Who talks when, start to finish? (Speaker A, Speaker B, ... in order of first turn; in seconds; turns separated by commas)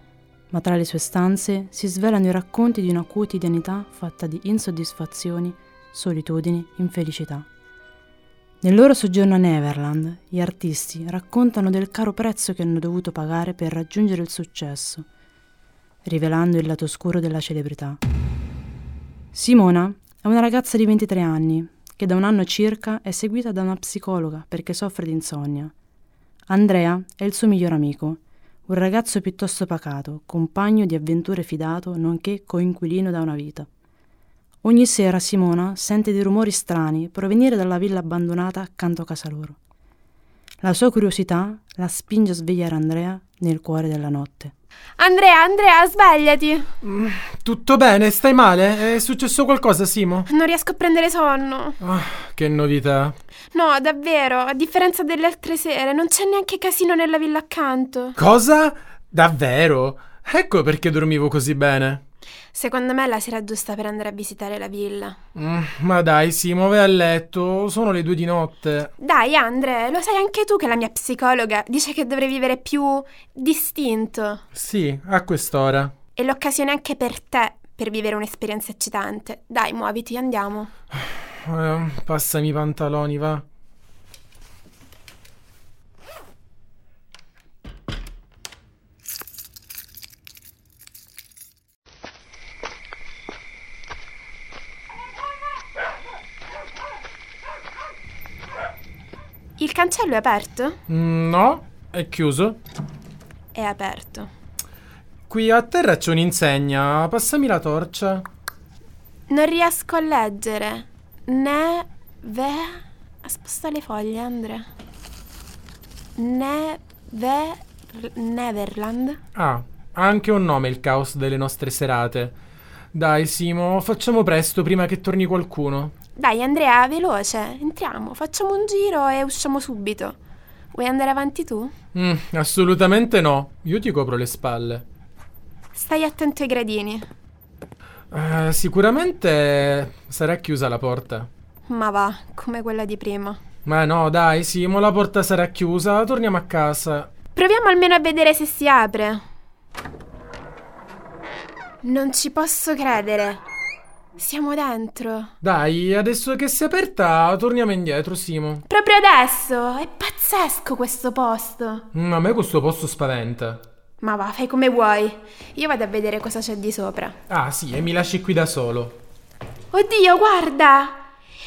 Speaker A: 0.5-7.5, Speaker A: 8.6-15.1, Speaker A: 16.1-18.0, Speaker A: 19.3-25.7, Speaker A: 26.5-33.7, Speaker A: 34.6-39.6, Speaker A: 40.6-44.5, Speaker B: 45.0-46.7, Speaker C: 46.8-50.3, Speaker B: 50.3-51.8, Speaker C: 51.8-53.2, Speaker B: 53.5-58.2, Speaker C: 58.2-62.0, Speaker B: 62.5-65.2, Speaker C: 65.3-68.9, Speaker B: 69.0-74.4, Speaker C: 74.5-75.9, Speaker B: 76.2-80.7, Speaker C: 81.3-83.4, Speaker B: 99.6-100.8, Speaker C: 100.9-102.6, Speaker B: 103.5-104.3, Speaker C: 105.3-108.3, Speaker B: 109.3-114.7, Speaker B: 116.2-119.2, Speaker C: 119.3-122.4, Speaker C: 122.9-125.9, Speaker B: 126.2-130.2, Speaker B: 130.7-131.7, Speaker C: 131.9-134.8, Speaker B: 135.7-137.1, Speaker C: 138.1-141.3, Speaker B: 141.7-143.4, Speaker C: 143.7-147.1, Speaker B: 147.3-149.2, Speaker B: 151.8-153.4, Speaker B: 154.2-155.3, Speaker C: 155.4-158.6, Speaker B: 158.7-161.9, Speaker C: 161.9-163.6, Speaker B: 164.0-167.2, Speaker C: 167.3-169.0, Speaker B: 169.7-171.1